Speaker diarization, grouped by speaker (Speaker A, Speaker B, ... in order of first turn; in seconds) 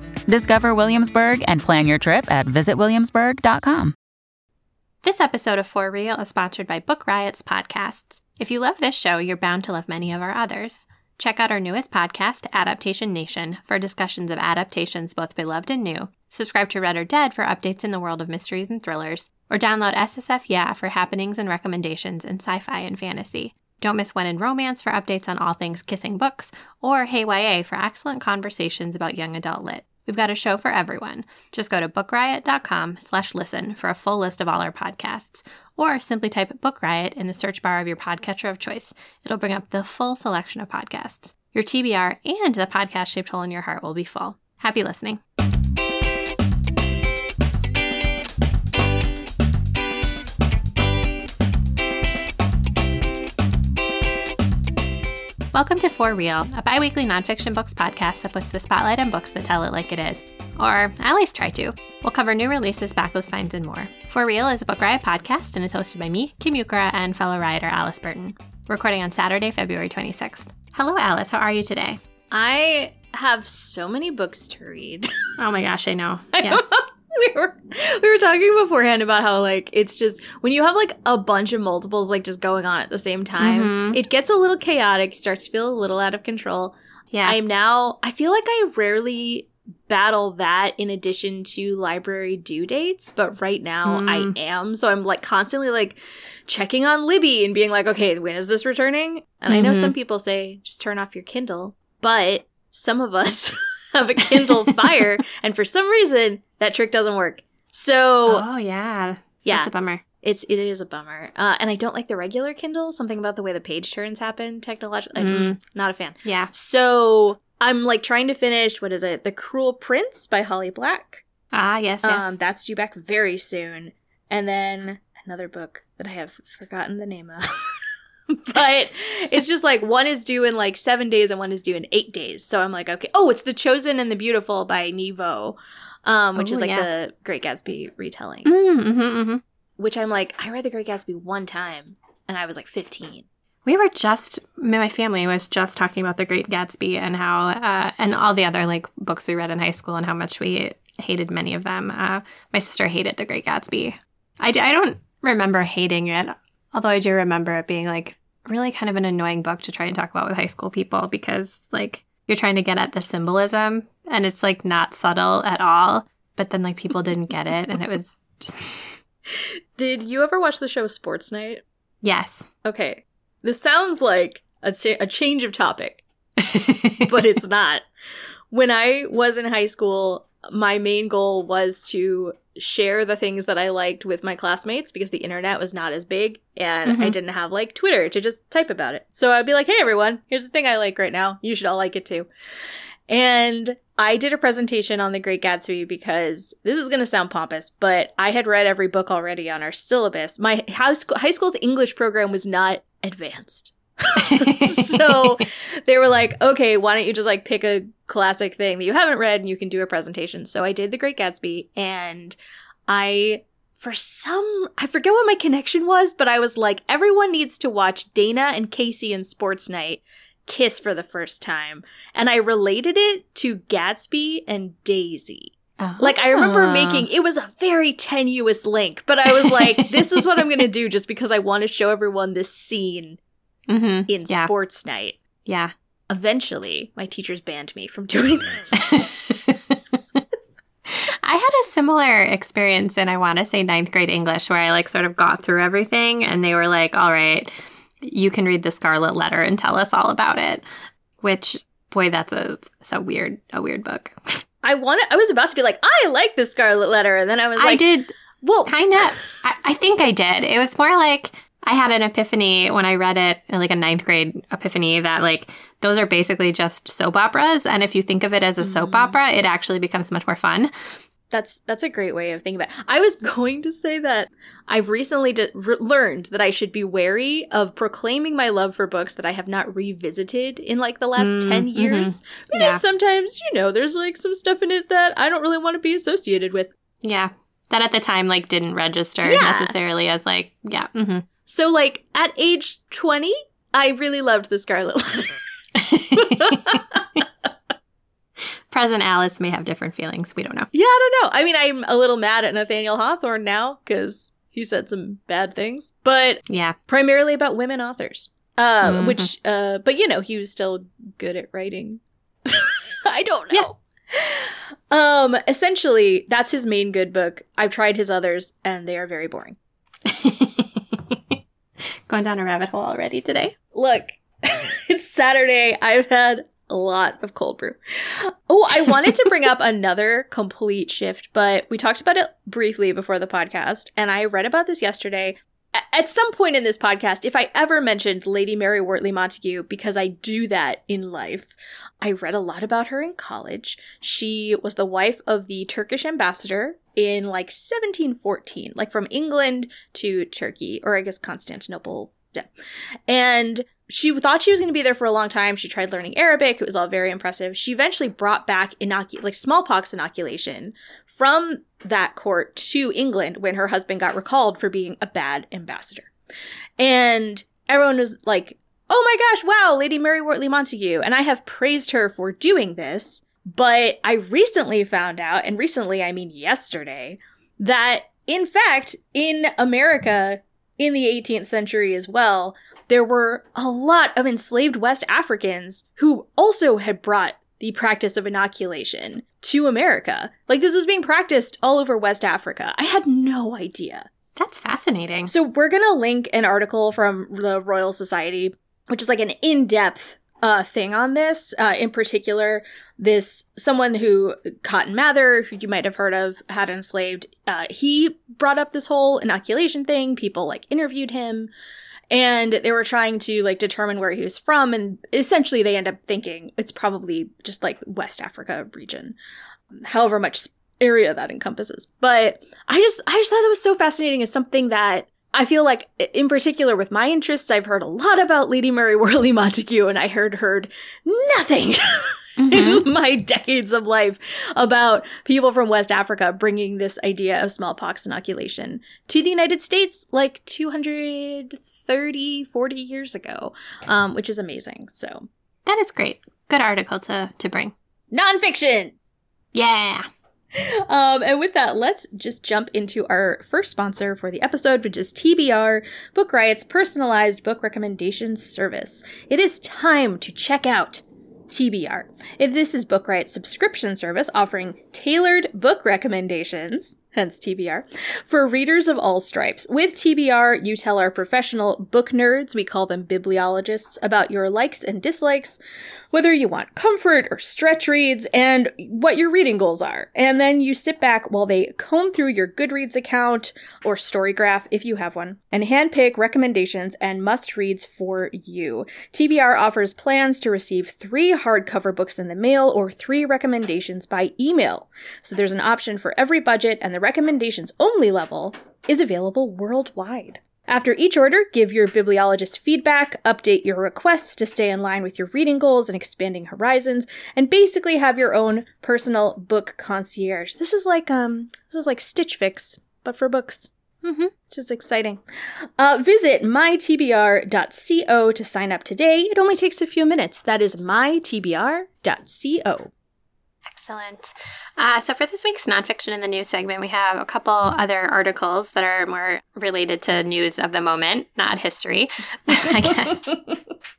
Speaker A: 0.3-3.9
Speaker B: 5.0-45.2, 55.5-72.0, 75.4-76.7, 83.4-84.0, 87.1-87.4, 93.8-94.3, 99.5-99.9, 108.3-110.0, 115.2-115.6, 116.2-116.5, 121.5-122.3, 136.4-136.9, 138.4-139.4, 143.7-168.9, 172.0-172.5, 176.4-177.1, 186.8-187.2, 204.3-205.3, 225.8-227.0, 229.4-230.2, 233.7-234.5, 235.4-235.7, 238.8-240.2, 240.9-247.5, 248.0-250.6, 251.2-254.4, 257.6-258.1, 258.6-270.7, 281.2-282.8, 287.0-291.3, 295.8-296.8, 298.7-300.7, 306.5-306.8, 308.8-309.3, 320.1-321.4, 322.1-323.5, 394.4-395.3, 432.4-432.9, 445.6-447.7, 449.5-450.1, 514.0-514.3, 523.7-533.4
Speaker C: 72.3-75.1, 76.3-108.4, 109.4-109.7, 110.2-121.2, 122.0-127.4, 128.3-138.5, 139.8-143.2, 169.8-171.6, 172.6-176.0, 177.0-177.8, 178.5-192.3, 193.1-212.4, 212.9-233.2, 234.1-235.2, 236.1-239.0, 254.6-257.8, 258.4-259.2, 268.6-269.2, 271.3-286.7, 289.2-289.7, 291.4-295.3, 296.1-297.1, 300.7-319.6, 323.7-352.5, 353.1-366.1, 366.8-394.1, 395.3-411.5, 412.1-419.1, 419.7-445.3, 448.1-448.9, 450.5-475.6, 476.1-513.7, 514.5-515.2, 515.8-522.9